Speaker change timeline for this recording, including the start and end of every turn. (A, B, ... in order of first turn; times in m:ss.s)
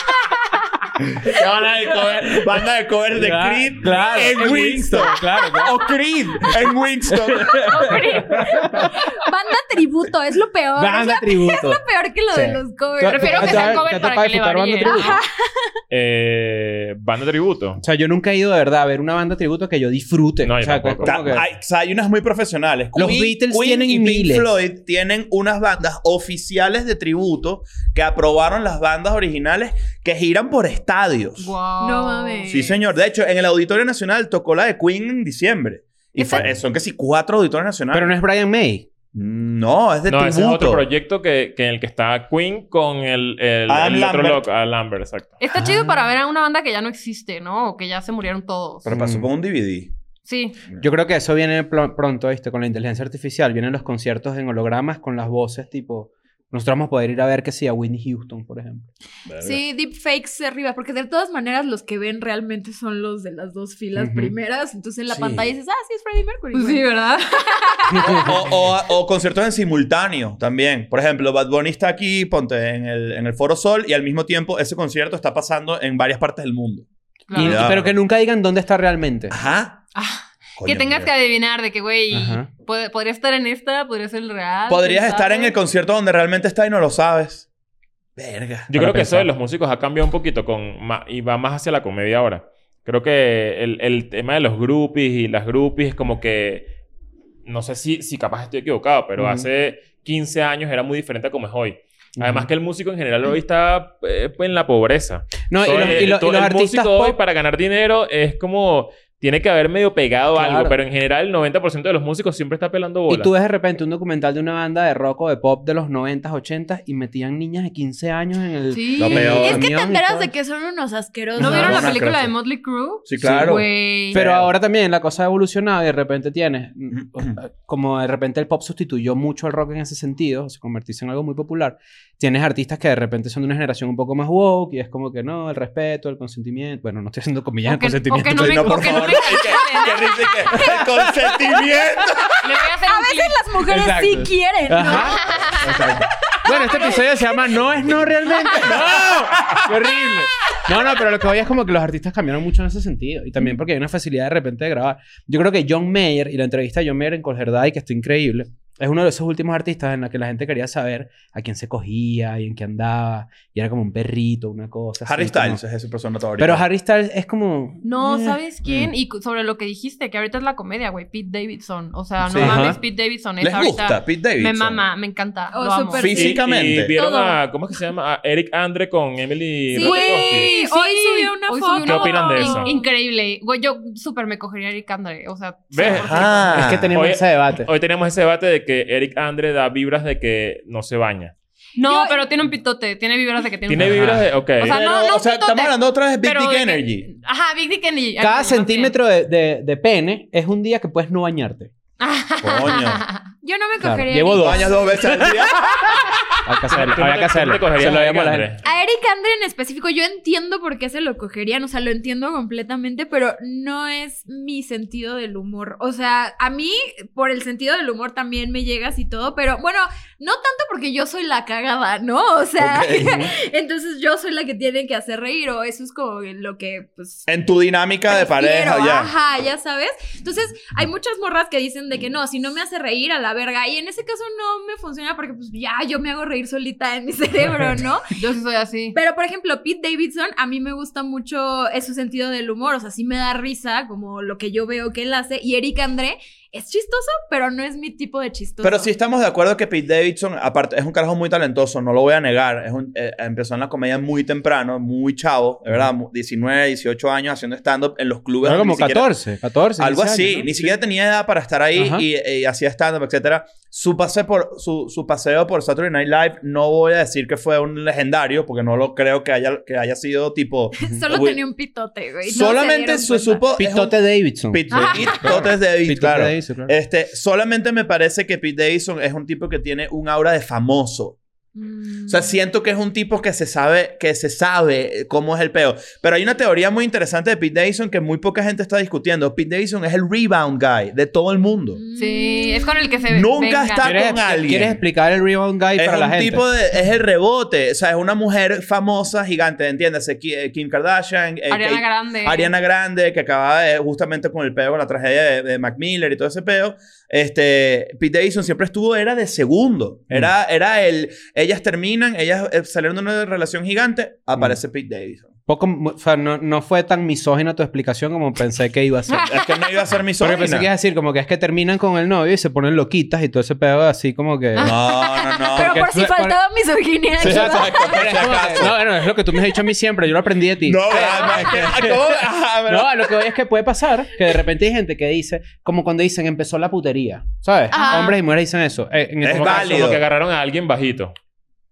0:01.0-0:08.9 A
0:02.1-0:02.4 B
0:03.1-0:05.8 B
0:07.1-0:09.1 B
0:07.7-0:14.0 C
0:07.7-0:08.4 D
0:10.8-0:15.1 B
0:13.0-0:15.2 D
0:14.8-0:15.8 C
0:15.9-0:17.8 E
0:17.8-0:21.4 B
0:20.4-0:21.4 E
0:21.0-0:31.5 A
0:22.9-0:24.5 B
0:31.4-0:32.8 D
0:31.8-0:32.8 C
0:32.5-0:38.1 A
0:36.2-0:36.4 D
0:37.9-0:38.8 B
0:39.1-0:40.8 A
0:40.1-0:45.4 E
0:43.7-0:44.4 A
0:45.4-0:48.9 D
0:45.5-0:46.0 B
0:48.8-0:49.9 A
0:48.9-0:49.3 B
0:50.2-0:50.6 D
0:50.8-0:58.9 B
0:59.3-0:59.6 A
0:59.4-1:06.9 C
1:04.0-1:04.3 B
1:05.1-1:05.5 B
1:06.5-1:08.2 D
1:07.5-1:08.3 C
1:07.9-1:08.6 B
1:08.2-1:18.0 A
1:17.3-1:17.7 D
1:17.3-1:19.4 B
1:19.3-1:19.8 A
1:19.9-1:25.6 D
1:20.6-1:21.1 A
1:22.1-1:22.5 B
1:24.7-1:27.4 A
1:28.2-1:28.7 A
1:28.7-1:36.7 E
1:28.7-1:29.3 B
1:37.4-1:53.3 E
1:39.2-1:39.5 B
1:42.2-1:42.5 B
1:45.5-1:47.2 B
1:50.3-1:50.8 B
1:53.1-2:00.3 B
1:58.7-1:59.4 D
1:59.0-1:59.6 A
1:59.3-2:02.0 C
2:01.4-2:02.3 A
2:01.4-2:04.2 D
2:03.0-2:04.5 A
2:03.2-2:19.3 B
2:17.6-2:20.6 D
2:18.2-2:22.3 A
2:19.4-2:19.6 C
2:20.4-2:20.7 C
2:20.5-2:21.8 B
2:22.4-2:23.5 D
2:22.8-2:27.5 C
2:23.6-2:45.6 B
2:24.9-2:25.7 D
2:25.7-2:26.0 A
2:28.2-2:28.7 C
2:28.6-2:30.2 A
2:45.0-2:46.6 A
2:46.4-2:48.9 B
2:47.8-2:56.3 D
2:52.3-2:52.7 A
2:52.3-2:52.8 B
2:53.4-2:54.8 A
2:55.5-2:57.4 C
2:55.9-2:56.9 A
2:56.1-3:00.5 E
2:59.7-3:02.8 C
2:59.8-3:06.7 D
3:01.8-3:02.8 E
3:05.7-3:11.3 E
3:05.8-3:06.9 A
3:06.5-3:07.7 B
3:11.8-3:19.0 D
3:11.8-3:12.2 C
3:13.7-3:14.8 E
3:13.8-3:14.3 B
3:14.6-3:17.1 A
3:18.2-3:21.7 B
3:22.0-3:23.2 D
3:22.4-3:23.0 A
3:23.4-3:25.2 C
3:23.8-3:28.5 B
3:24.4-3:26.2 A
3:26.7-3:28.6 E
3:28.6-3:47.3 C
3:42.6-3:43.1 A
3:42.9-3:43.3 B
3:47.3-3:49.1 A
3:48.1-3:58.1 C
3:58.2-3:59.0 D
3:58.9-4:08.9 C
4:08.6-4:19.1 A
4:18.4-4:20.7 B
4:19.8-4:31.4 A
4:21.8-4:22.0 B
4:30.7-4:33.4 C
4:32.3-4:41.2 A
4:33.6-4:36.7 B
4:34.7-4:35.2 D
4:41.5-4:42.3 C
4:42.1-4:51.8 A
4:51.8-4:53.0 C
4:52.0-4:54.0 D
4:53.1-4:54.8 A
4:53.8-4:56.4 B
4:55.8-5:15.3 A
5:01.5-5:02.5 D
5:15.5-5:19.3 B
5:19.1-5:19.8 D
5:19.2-5:20.7 A
5:20.2-5:24.7 B
5:24.6-5:25.8 A
5:24.7-5:28.5 C
5:25.6-5:26.4 B
5:27.2-5:28.8 A
5:27.2-5:40.0 B
5:30.6-5:33.3 A
5:37.7-5:38.2 D
5:37.7-5:38.1 C
5:39.2-5:40.0 A
5:39.2-5:41.1 E